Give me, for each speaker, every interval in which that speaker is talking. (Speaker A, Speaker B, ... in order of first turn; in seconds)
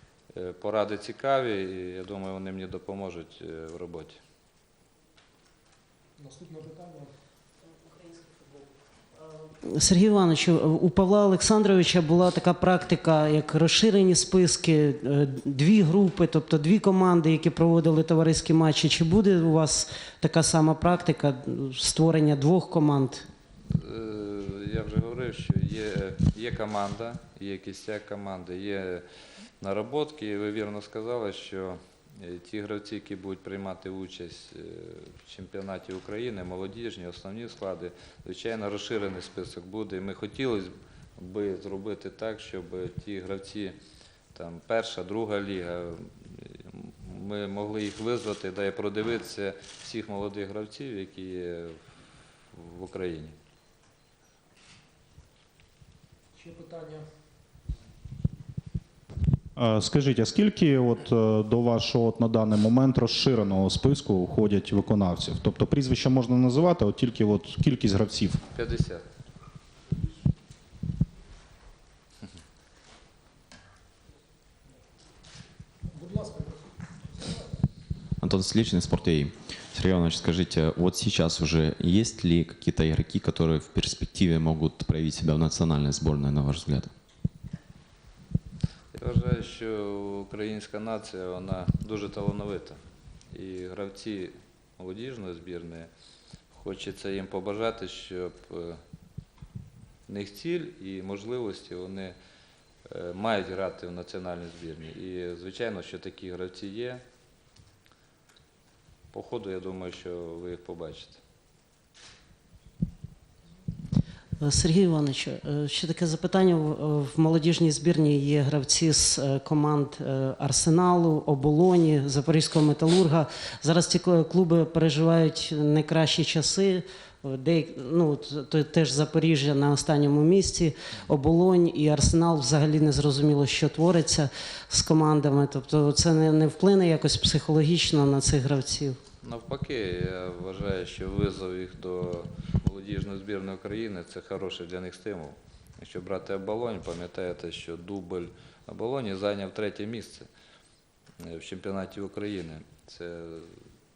Speaker A: 0.3-4.2, 23.7-29.0, 29.6-43.8, 44.3-51.8, 52.5-53.3, 68.5-69.0, 88.9-92.8, 93.3-95.9, 96.5-98.8, 100.1-102.1, 102.9-107.0, 109.1-111.2, 139.2-150.3, 151.2-153.5
Speaker B: 6.2-7.1, 56.3-57.0, 75.9-77.5
Speaker C: 9.6-23.2, 114.4-139.0
Speaker D: 59.6-68.4
Speaker E: 78.2-86.9